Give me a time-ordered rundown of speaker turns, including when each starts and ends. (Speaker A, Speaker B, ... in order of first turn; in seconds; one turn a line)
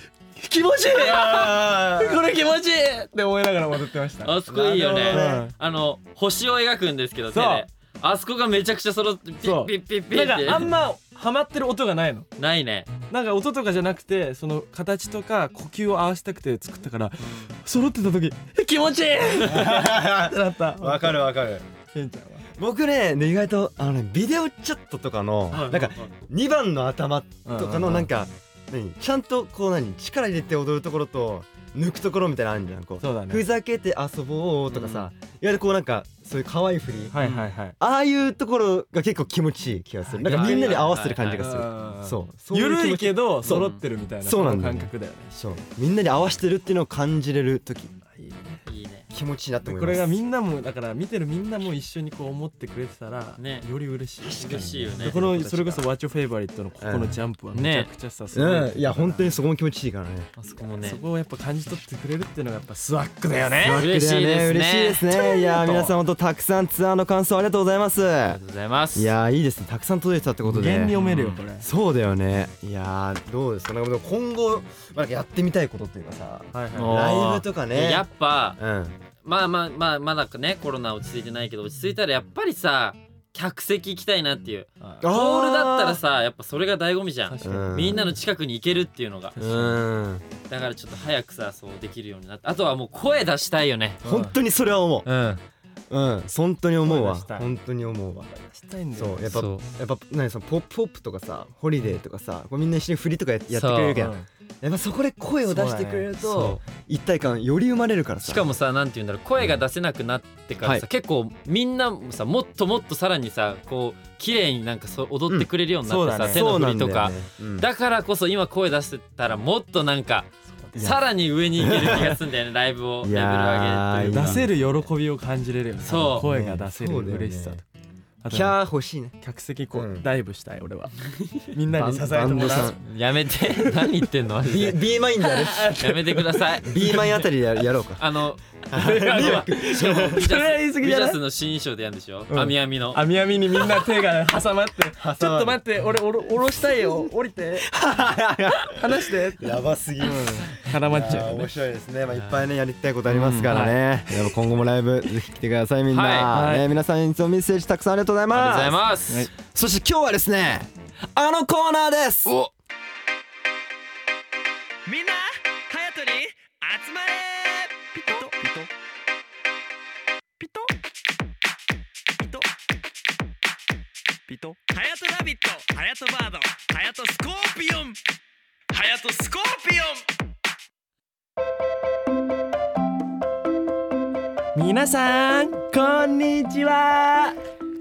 Speaker A: 0.4-4.4
Speaker B: 0.9-2.2
Speaker C: 4.2-10.7
Speaker B: 4.5-5.4
Speaker A: 5.0-5.5
Speaker A: 7.3-7.6
Speaker A: 9.4-12.3
Speaker C: 12.4-12.9
Speaker A: 13.1-21.2
Speaker C: 17.2-17.5
Speaker B: 19.4-21.6
Speaker A: 21.9-22.4
Speaker B: 22.6-37.2
Speaker A: 25.5-26.1
Speaker A: 27.4-28.1
Speaker A: 33.0-33.4
Speaker C: 34.7-35.1
Speaker A: 37.1-37.8
Speaker B: 37.8-43.7
Speaker A: 40.1-45.3
Speaker C: 40.2-41.5
Speaker C: 43.4-43.8
Speaker B: 44.2-47.9
Speaker A: 48.1-48.6
Speaker C: 48.7-49.1
Speaker B: 49.1-50.1
Speaker A: 49.6-59.3
Speaker C: 53.4-53.7
Speaker C: 54.3-55.8
Speaker B: 54.5-55.4
Speaker B: 56.8-57.2
Speaker C: 57.5-57.9
Speaker B: 58.3-60.3
Speaker C: 60.4-61.0
Speaker A: 60.8-63.9
Speaker B: 63.5-68.4
Speaker C: 63.7-65.1
Speaker A: 65.3-65.9
Speaker C: 68.3-69.1
Speaker B: 69.0-71.0
Speaker A: 70.5-71.7
Speaker C: 70.9-71.4
Speaker B: 71.6-78.1
Speaker A: 76.5-77.0
Speaker C: 76.8-78.6
Speaker B: 78.6-79.0
Speaker C: 79.2-89.5
Speaker B: 85.0-86.0
Speaker A: 87.3-88.1
Speaker B: 87.4-88.1
Speaker A: 89.4-89.8
Speaker B: 89.4-90.2
Speaker C: 90.5-94.0
Speaker A: 94.0-94.3
Speaker B: 94.0-95.1
Speaker C: 95.0-95.4
Speaker B: 95.9-98.3
Speaker A: 96.8-97.5
Speaker A: 98.3-99.4
Speaker B: 99.0-108.5
Speaker C: 99.3-99.6
Speaker C: 103.5-104.0
Speaker A: 104.0-104.2
Speaker A: 105.5-106.1
Speaker C: 106.2-106.6
Speaker C: 108.2-124.7
Speaker A: 115.8-116.5
Speaker B: 116.3-117.7
Speaker B: 120.8-121.0
Speaker B: 121.5-122.2
Speaker B: 123.0-124.5
Speaker A: 124.1-127.6
Speaker C: 125.8-126.3
Speaker B: 126.2-127.6
Speaker A: 128.2-128.6
Speaker B: 128.3-129.1
Speaker A: 129.2-132.8
Speaker B: 129.7-130.1
Speaker B: 131.7-132.8
Speaker C: 132.4-134.9
Speaker B: 134.4-135.8
Speaker A: 135.2-137.1
Speaker C: 135.8-137.2
Speaker B: 136.6-138.0
Speaker C: 138.0-138.4
Speaker B: 138.7-140.2
Speaker A: 138.7-141.2
Speaker C: 139.0-143.0
Speaker A: 142.3-147.7
Speaker B: 145.0-145.6
Speaker B: 147.6-158.8
Speaker A: 148.6-151.5
Speaker C: 152.1-152.4
Speaker C: 153.1-153.7
Speaker A: 153.5-153.8
Speaker C: 155.9-156.3
Speaker A: 156.3-156.7
Speaker C: 158.3-159.3
Speaker B: 159.3-162.3
Speaker A: 164.8-168.7
Speaker A: 170.4-170.7
Speaker A: 172.2-172.5
Speaker A: 174.3-178.0
Speaker A: 178.7-180.0
Speaker A: 184.5-187.4